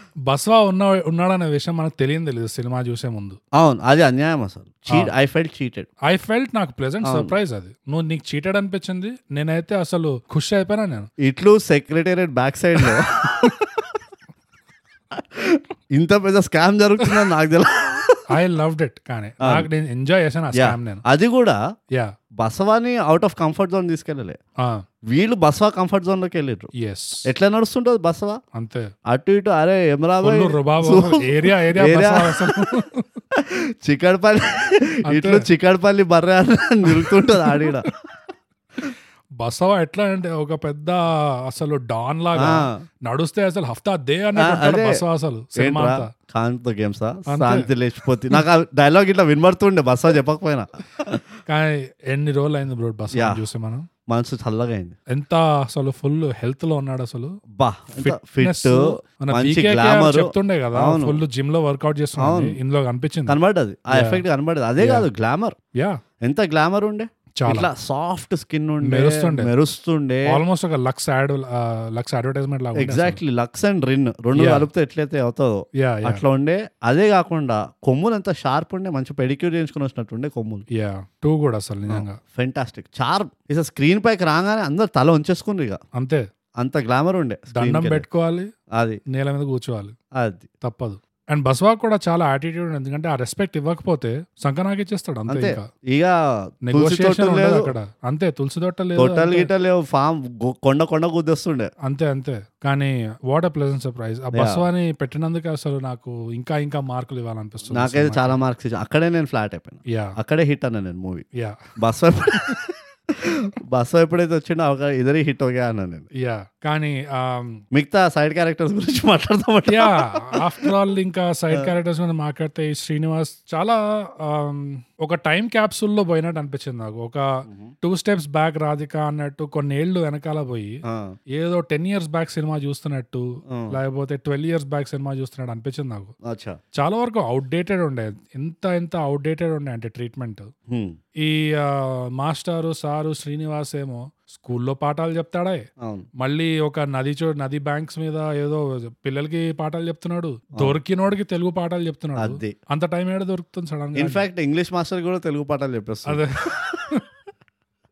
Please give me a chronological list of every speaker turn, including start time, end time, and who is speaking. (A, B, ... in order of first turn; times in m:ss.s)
0:00.3-0:03.4 A
0:03.6-0:05.9 B
0:06.1-0:11.1 A
0:07.0-0:07.3 B
0:11.2-0:13.8 B
0:12.8-0:13.6 A
0:15.1-0:18.3 B
0:18.3-0:21.0 A
0:19.4-0:19.7 B
0:20.5-0:21.6 B
0:22.4-0:24.4 B
0:25.1-0:26.7 B
0:26.8-0:27.3 A
0:27.2-0:28.4 B
0:28.6-0:28.9 A
0:29.1-0:32.6 B
0:30.2-0:33.1 A
0:33.3-0:37.9 B
0:35.1-0:35.5 A
0:36.9-0:37.9 A
0:39.4-0:46.1 A
0:42.4-0:42.8 B
0:44.4-0:45.0 B
0:45.6-0:51.2 B
0:47.3-0:47.7 A
0:51.5-0:53.9 A
0:53.1-0:53.4 B
0:54.1-0:55.0 B
0:55.1-0:57.4 A
0:57.6-1:01.2 B
0:58.0-1:03.4 A
1:02.2-1:02.6 B
1:03.3-1:05.6 B
1:03.9-1:04.2 A
1:04.8-1:05.1 A
1:06.2-1:10.4 B
1:07.4-1:07.7 A
1:08.8-1:09.5 A
1:10.3-1:13.2 A
1:12.8-1:20.6 B
1:14.4-1:14.7 A
1:15.8-1:16.2 A
1:20.7-1:22.2 A
1:21.9-1:25.8 B
1:26.0-1:26.2 A
1:26.6-1:28.0 B
1:27.5-1:28.5 A
1:28.7-1:29.0 B
1:29.1-1:30.0 A
1:30.2-1:30.5 B
1:30.6-1:35.7 A
1:35.3-1:37.7 B
1:36.7-1:39.5 A
1:39.0-1:41.7 B
1:41.8-1:48.4 A
1:44.3-1:44.6 B
1:47.7-1:51.2 B
1:49.9-1:50.2 A
1:51.8-1:56.1 B
1:56.2-1:57.6 A
1:57.7-2:00.7 B
1:59.7-2:10.8 A
2:07.5-2:07.7 B
2:10.8-2:11.2 B
2:11.3-2:16.1 A
2:13.5-2:13.8 B
2:16.2-2:16.6 B
2:16.8-2:20.5 A
2:20.7-2:21.0 B
2:21.2-2:25.6 A
2:25.8-2:26.1 B
2:26.2-2:34.2 A
2:32.2-2:32.6 B
2:34.0-2:36.8 B
2:36.1-2:37.0 A